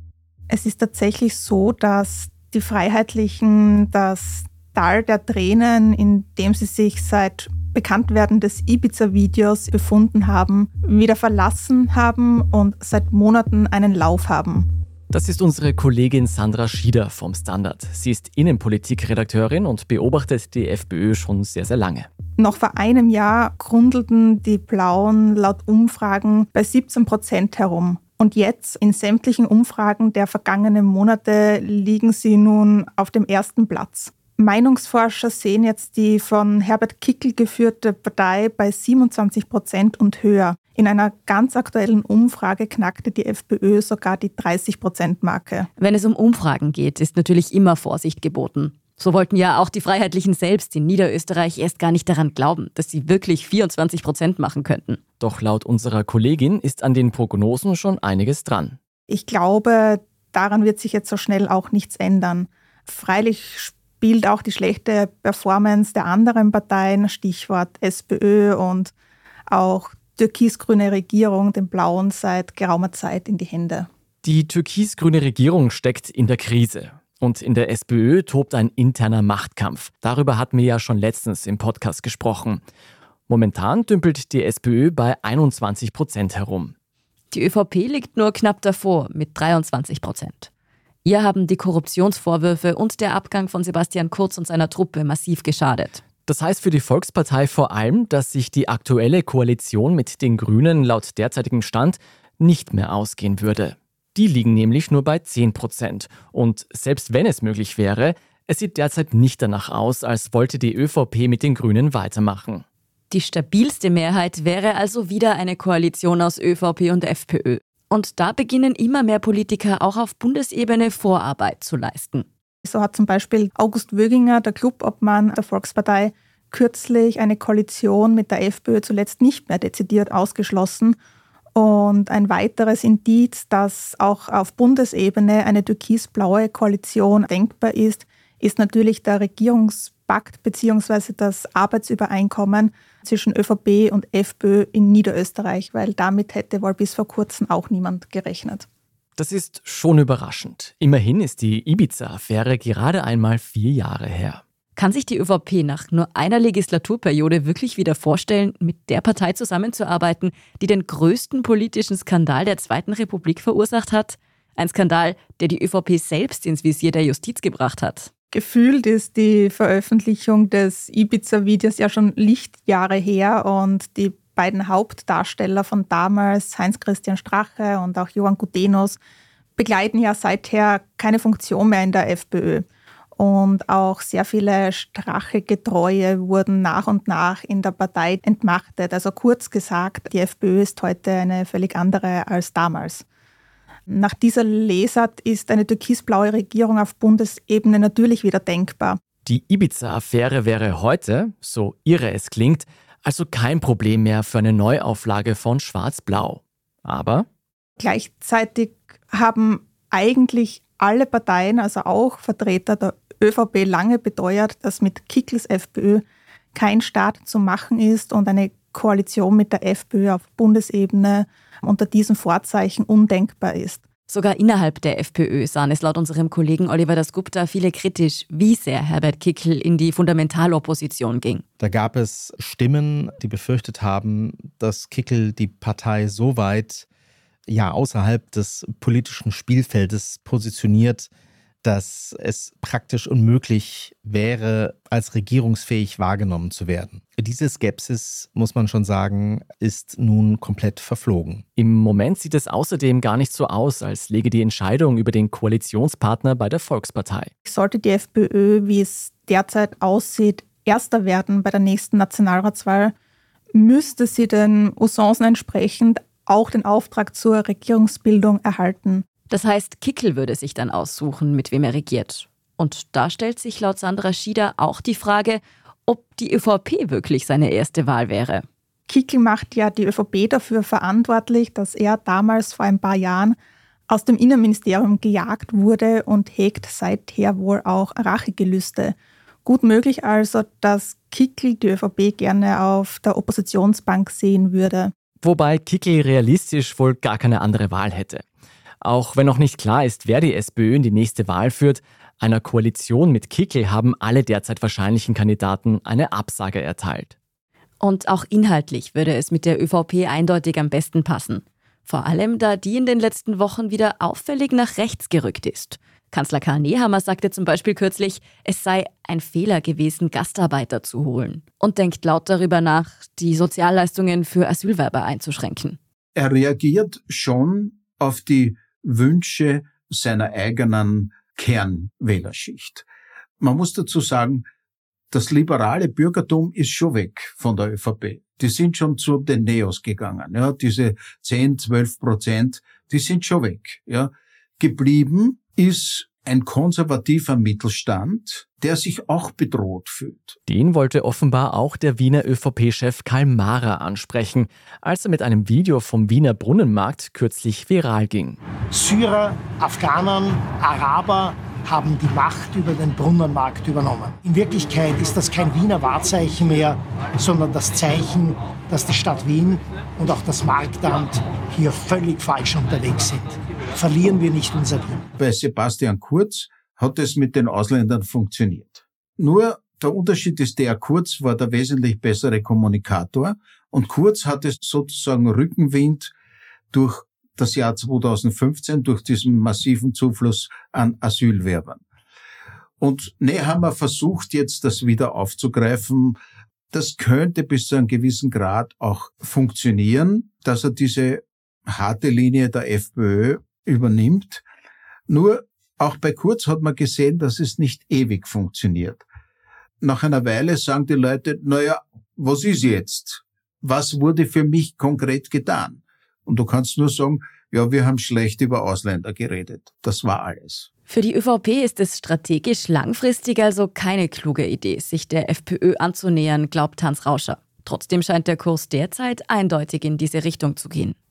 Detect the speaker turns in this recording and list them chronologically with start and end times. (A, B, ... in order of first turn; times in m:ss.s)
0:00.5-0:14.7 A
0:15.1-0:22.1 B
0:22.4-0:45.7 A
0:45.8-0:55.0 C
0:55.2-0:58.8 B
0:59.1-1:08.9 A
1:09.5-1:13.9 A
1:14.2-1:22.6 B
1:23.3-1:26.7 B
1:27.3-1:30.5 C
1:31.0-1:36.0 C
1:36.2-1:52.6 B
1:53.1-2:02.3 C
2:02.6-2:11.0 A
2:11.6-2:28.7 A
2:29.2-2:34.4 B
2:34.8-2:48.1 C
2:48.3-2:59.0 A
2:59.6-3:13.0 A
3:13.9-3:19.0 A
3:19.2-3:27.3 B
3:27.8-3:43.8 A
3:44.1-3:51.4 C
3:51.6-3:56.9 D
3:57.5-4:01.1 D
4:01.6-4:11.4 D
4:11.6-4:17.3 B
4:17.4-4:22.9 A
4:23.6-4:29.0 A
4:29.3-4:38.4 C
4:38.9-4:43.4 A
4:43.9-4:54.9 A
4:55.2-4:58.2 B
4:58.8-5:07.2 B
5:07.8-5:25.8 C
5:26.2-5:32.9 E
5:33.4-5:34.4 E
5:35.1-5:50.4 E
5:50.5-5:58.4 B
5:58.7-6:15.0 F
6:15.2-6:26.1 E
6:26.7-6:31.8 E
6:32.8-6:36.2 E
6:36.7-6:44.4 E
6:45.1-6:49.0 E
6:49.8-7:00.7 E
7:00.9-7:11.0 C